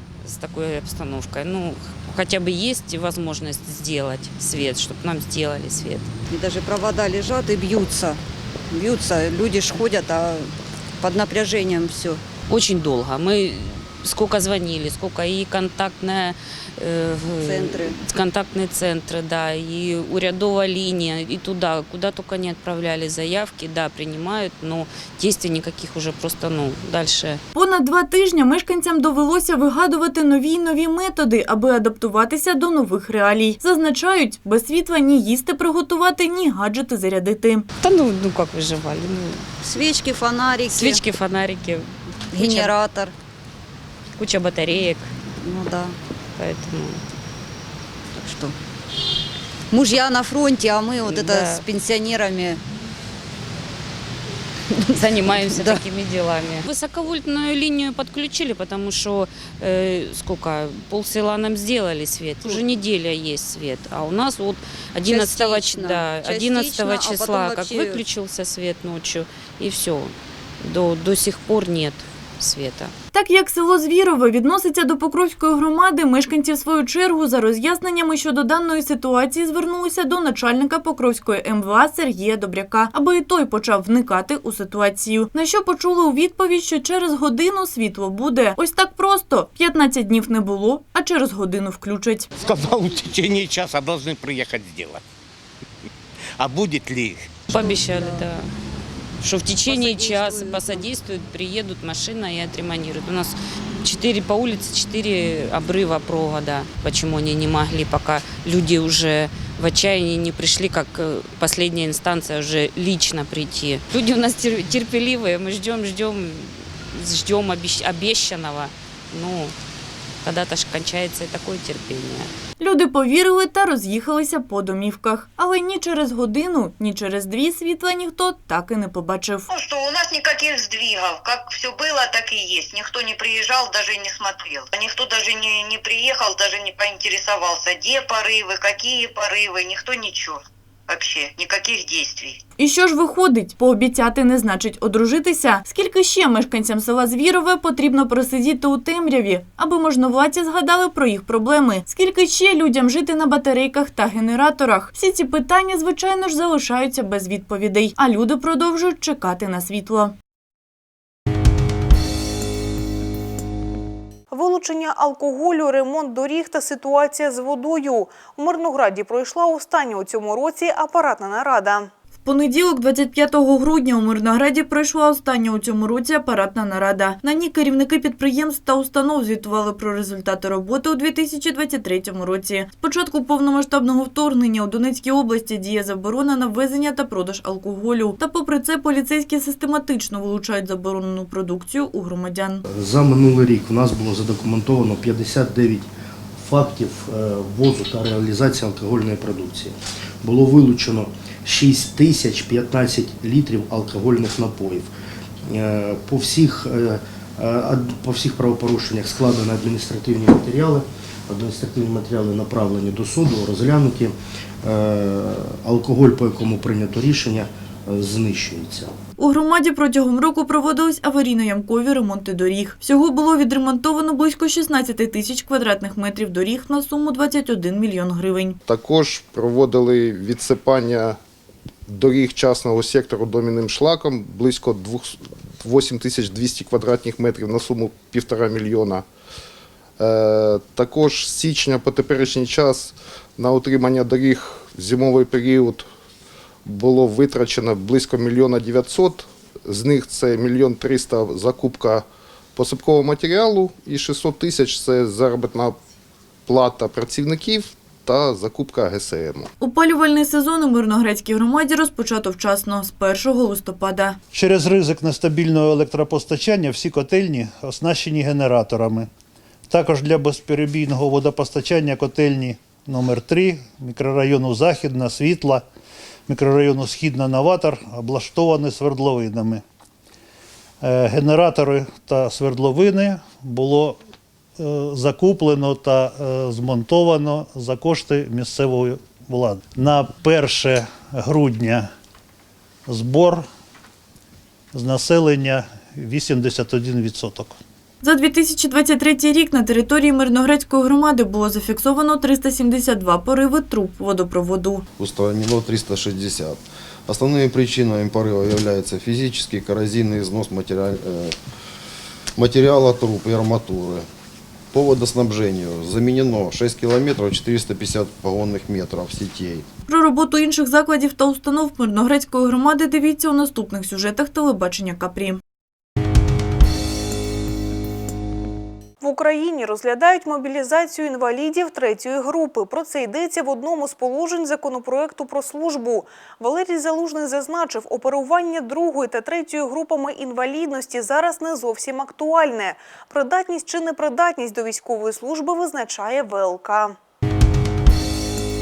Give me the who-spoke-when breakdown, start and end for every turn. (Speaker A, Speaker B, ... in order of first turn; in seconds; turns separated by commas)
Speaker A: 0.2-6.1, Speaker B: 6.3-8.2, Speaker B: 8.7-12.2, Speaker A: 12.5-27.4, Speaker B: 17.4-18.0, Speaker C: 27.5-37.6, Speaker A: 37.8-39.5, Speaker B: 39.6-41.0, Speaker A: 40.7-42.7, Speaker B: 42.3-43.1, Speaker A: 44.2-45.1, Speaker B: 45.4-46.0, Speaker A: 46.4-47.0, Speaker B: 48.1-48.5, Speaker B: 49.7-52.6, Speaker A: 51.0-51.6, Speaker B: 54.7-55.8, Speaker A: 55.0-72.9, Speaker B: 62.4-62.7, Speaker B: 65.0-68.0, Speaker C: 73.1-92.3, Speaker D: 92.4-95.0, Speaker D: 96.4-97.4, Speaker B: 97.5-98.3, Speaker A: 97.5-98.5, Speaker A: 99.2-119.5, Speaker B: 99.6-100.9, Speaker A: 120.2-122.3, Speaker C: 122.6-129.5, Speaker E: 129.5-142.4, Speaker C: 142.6-160.1, Speaker F: 164.3-171.9, Speaker C: 172.2-192.6, Speaker G: 192.7-204.9, Speaker G: 205.4-219.0, Speaker C: 219.2-228.6, Speaker H: 228.7-231.2, Speaker H: 231.9-239.1, Speaker H: 240.0-245.8, Speaker H: 246.6-255.8, Speaker H: 256.5-259.5, Speaker C: 259.6-264.2, Speaker I: 264.3-269.1, Speaker I: 269.7-275.6, Speaker I: 276.3-279.6, Speaker I: 280.8-284.0, Speaker I: 284.6-291.9, Speaker I: 292.9-293.5, Speaker I: 294.7-297.6, Speaker C: 298.0-304.8, Speaker J: 305.0-311.4, Speaker J: 312.4-314.1, Speaker J: 314.7-319.6, Speaker C: 319.9-325.4, Speaker F: 329.0-346.9